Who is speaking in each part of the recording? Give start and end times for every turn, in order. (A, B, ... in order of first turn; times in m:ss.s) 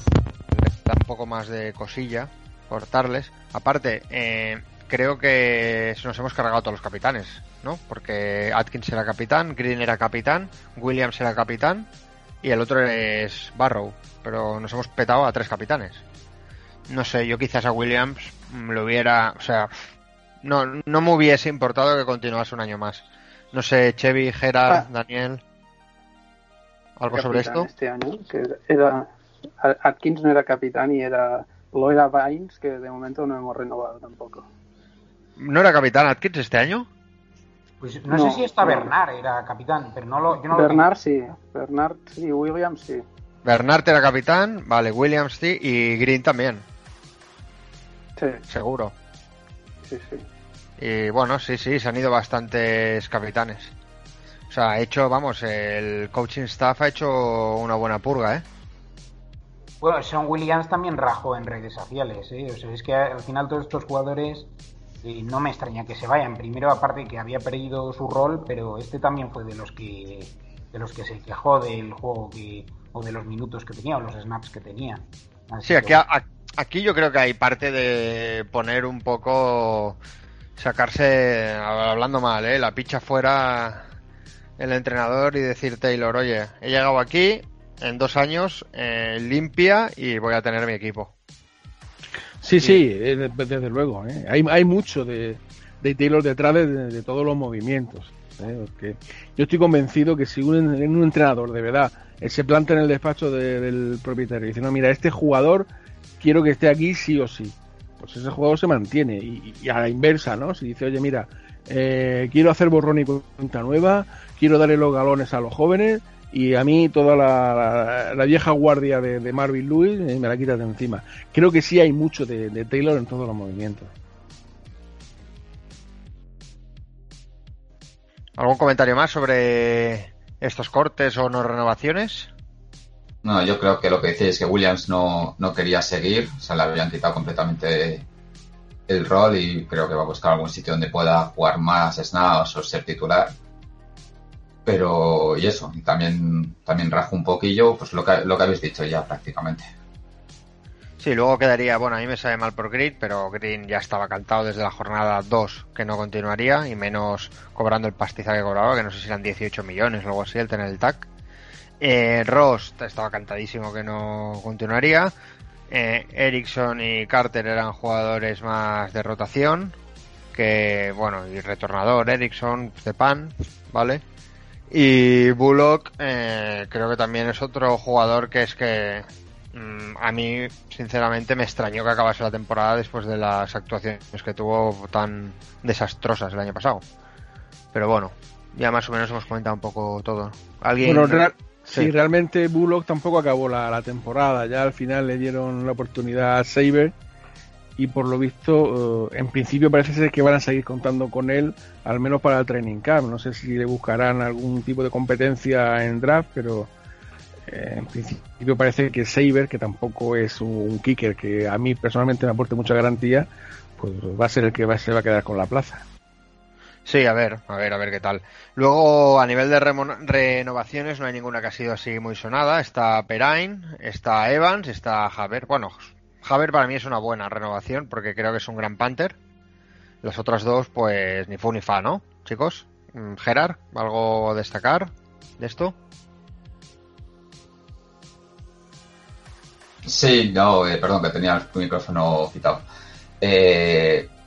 0:00.5-0:11.9 A
0:12.4-0:16.0 A
0:16.9-0:19.7 A
0:20.4-0:25.4 A
0:27.0-0:27.7 A
0:27.1-0:29.1 B
0:29.6-0:34.5 B
0:35.4-0:36.9 A
0:37.8-0:40.9 C
0:38.1-0:38.9 B
0:40.5-0:43.0 B
0:43.4-0:46.6 A
0:48.2-0:48.4 B
0:48.5-0:48.9 A
0:49.8-0:50.2 B
0:50.8-0:53.7 A
0:54.5-0:58.4 A
0:59.8-1:04.5 C
1:05.0-1:16.0 C
1:15.6-1:20.0 A
1:20.6-1:23.8 A
1:24.6-1:31.1 A
1:32.4-1:45.7 D
1:46.2-2:03.9 D
2:08.4-2:12.3 A
2:13.2-2:18.0 E
2:18.9-2:23.3 E
2:24.6-2:29.7 E
2:31.0-2:41.1 A
2:41.8-2:45.1 A
2:45.7-2:49.8 A
2:50.3-2:54.0 A
2:54.7-3:06.8 A
3:07.7-3:11.9 A
3:10.8-3:16.9 D
3:17.8-3:26.7 D
3:27.5-3:35.8 D
3:36.8-3:49.1 A
3:50.0-3:55.7 A
3:59.8-4:02.6 E
4:03.2-4:04.1 E